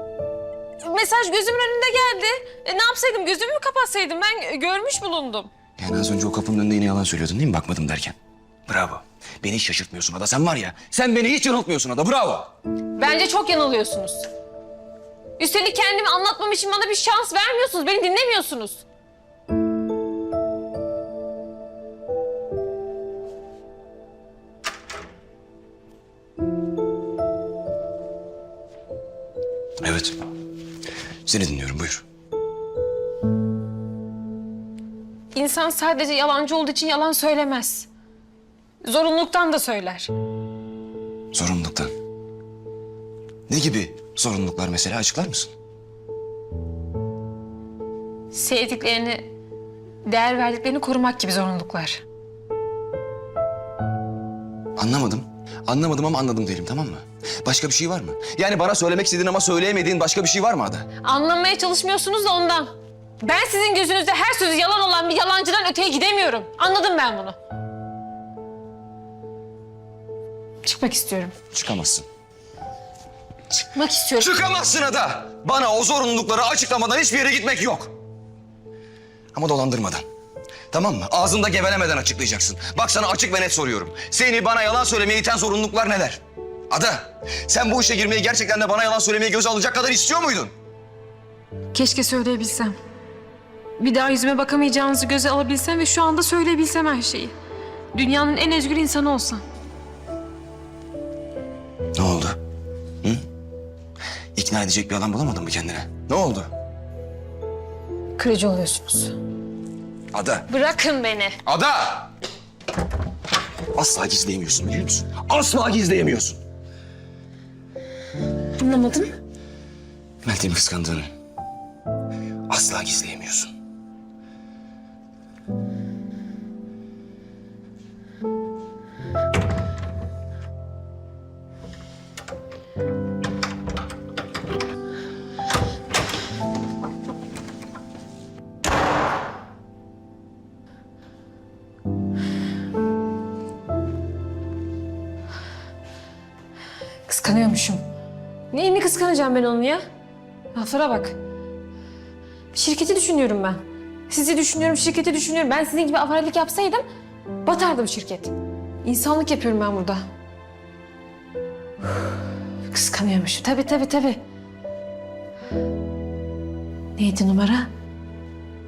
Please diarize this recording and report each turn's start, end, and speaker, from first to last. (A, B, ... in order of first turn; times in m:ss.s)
0:00.8-0:05.5 A
0:05.8-0:08.2 B
0:08.7-0:12.5 B
0:13.0-0:14.2 A
0:15.4-0:18.8 A
0:29.8-0:30.2 B
0:31.2-0:32.0 B
0:35.3-0:37.9 A
0:38.8-0:40.1 A
0:41.3-0:41.9 B
0:43.5-0:45.5 B
0:48.3-0:49.3 A
0:50.0-0:52.0 A
0:54.8-1:00.9 B
1:01.0-1:07.4 A
1:10.6-1:11.3 A
1:11.5-1:12.0 B
1:13.5-1:14.4 A
1:14.2-1:17.9 B
1:19.3-1:20.0 B
1:20.7-1:30.5 B
1:31.7-1:32.7 A
1:33.8-1:37.3 A
1:37.9-1:39.4 A
1:42.0-1:42.4 B
1:44.3-1:46.5 B
1:48.2-1:49.2 A
1:50.1-1:50.5 B
1:50.5-1:51.4 A
1:51.4-1:52.1 B
1:53.7-1:56.4 B
1:58.6-1:59.1 A
2:00.2-2:01.1 B
2:02.5-2:03.5 B
2:27.1-2:27.8 A
2:28.5-2:29.8 A
2:30.5-2:31.1 A
2:32.5-2:36.8 A
2:37.4-2:38.3 A
2:38.8-2:40.0 A
2:42.7-2:44.2 A
2:47.0-2:47.7 A